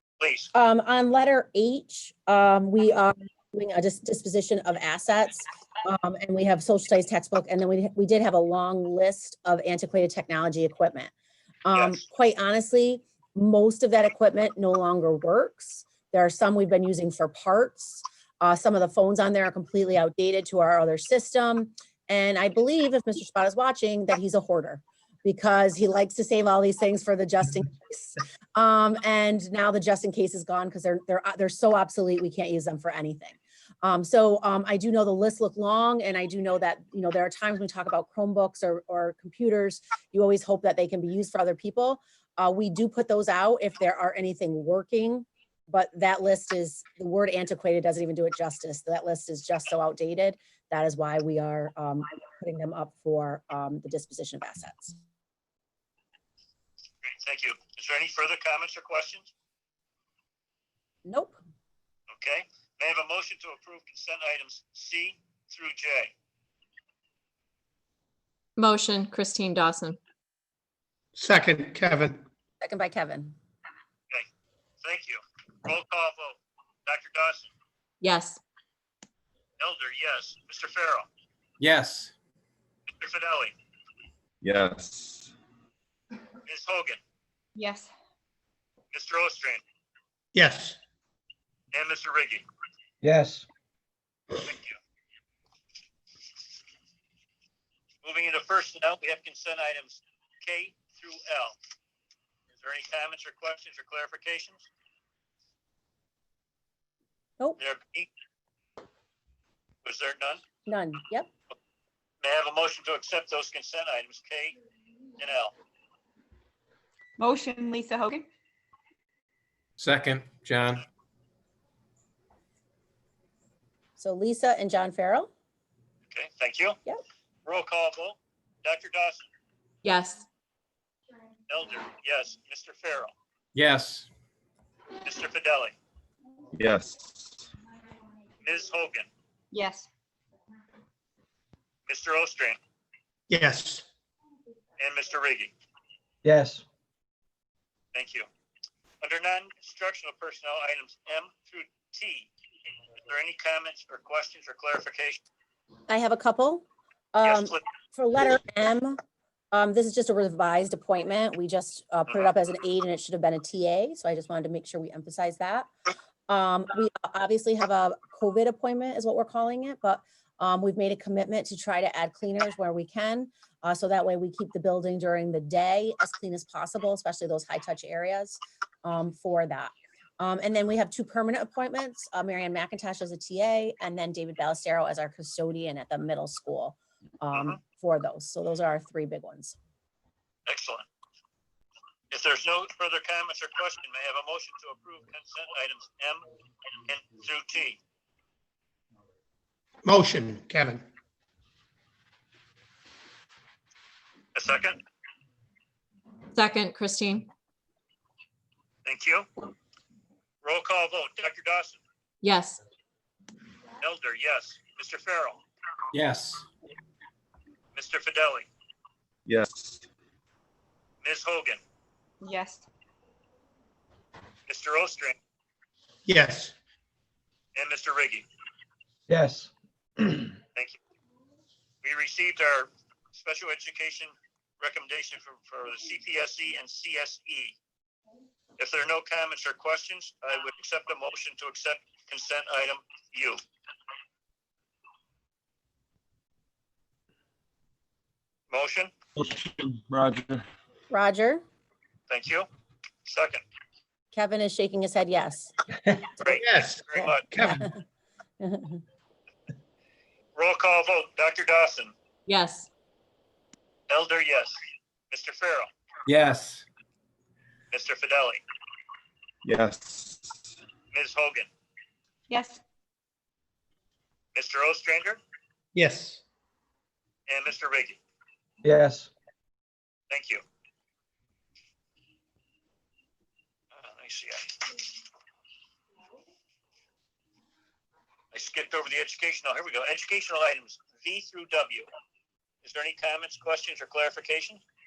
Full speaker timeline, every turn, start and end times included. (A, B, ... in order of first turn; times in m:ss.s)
0:00.2-0:00.5 A
0:00.5-0:11.1 B
0:11.6-0:54.9 B
0:11.7-0:12.0 A
0:57.0-0:59.3 A
1:01.0-1:01.4 B
1:02.1-1:06.1 A
1:08.6-1:10.0 C
1:11.2-1:12.2 D
1:12.6-1:13.3 B
1:14.8-1:17.5 A
1:18.0-1:18.4 C
1:19.6-1:21.0 A
1:21.6-1:22.1 E
1:22.9-1:23.5 A
1:24.4-1:25.3 F
1:26.4-1:27.0 A
1:27.5-1:27.9 G
1:28.9-1:29.6 A
1:30.3-1:30.8 D
1:31.7-1:32.4 A
1:33.0-1:33.4 H
1:34.4-1:34.8 A
1:38.0-1:41.6 A
1:42.6-1:44.6 A
1:47.6-1:48.1 A
1:49.8-1:50.4 A
1:50.6-1:51.3 B
1:52.2-1:54.6 A
1:55.2-1:55.5 A
1:57.2-1:58.3 G
1:59.8-2:00.8 E
2:04.0-2:05.3 B
2:06.1-2:06.8 A
2:07.4-2:09.3 A
2:09.8-2:10.2 C
2:11.5-2:13.1 A
2:13.5-2:14.1 E
2:15.0-2:15.7 A
2:16.5-2:17.1 F
2:18.4-2:19.1 A
2:19.5-2:19.9 G
2:21.9-2:22.6 A
2:23.3-2:23.8 D
2:24.8-2:25.5 A
2:26.2-2:26.6 H
2:27.9-2:28.3 A
2:29.0-2:32.3 A
2:33.0-2:35.2 A
2:35.9-2:39.0 B
2:37.2-2:37.6 A
2:39.5-2:45.7 B
2:46.3-3:09.6 B
3:07.3-3:07.6 A
3:10.5-3:10.8 A
3:12.1-3:16.2 A
3:16.9-3:17.8 A
3:19.8-3:20.8 D
3:24.3-3:24.8 A
3:26.3-3:27.3 C
3:28.8-3:29.3 A
3:30.4-3:31.8 A
3:32.2-3:32.6 C
3:33.8-3:35.4 A
3:35.9-3:36.4 E
3:37.7-3:38.5 A
3:39.2-3:39.8 F
3:41.0-3:41.6 A
3:42.2-3:42.6 G
3:44.5-3:45.2 A
3:46.1-3:46.5 D
3:47.5-3:48.2 A
3:49.1-3:50.2 H
3:51.8-3:57.6 A
3:58.6-4:03.4 A
4:08.5-4:08.9 A
4:10.9-4:11.4 B
4:12.1-4:12.4 A
4:13.0-4:13.4 A
4:14.1-4:15.5 B
4:16.2-4:17.3 A
4:16.3-4:17.6 D
4:17.4-4:17.8 B
4:18.4-4:18.8 B
4:20.4-4:21.9 A
4:22.2-4:22.7 C
4:23.9-4:24.6 A
4:25.1-4:25.7 A
4:26.0-4:26.6 E
4:27.7-4:28.4 A
4:29.4-4:30.2 F
4:30.9-4:31.5 A
4:32.3-4:32.6 G
4:34.3-4:35.2 A
4:35.7-4:36.2 D
4:37.3-4:38.0 A
4:38.6-4:39.1 H
4:40.1-4:40.4 A
4:43.7-4:44.8 A
4:48.3-4:51.8 A
4:52.6-4:54.6 A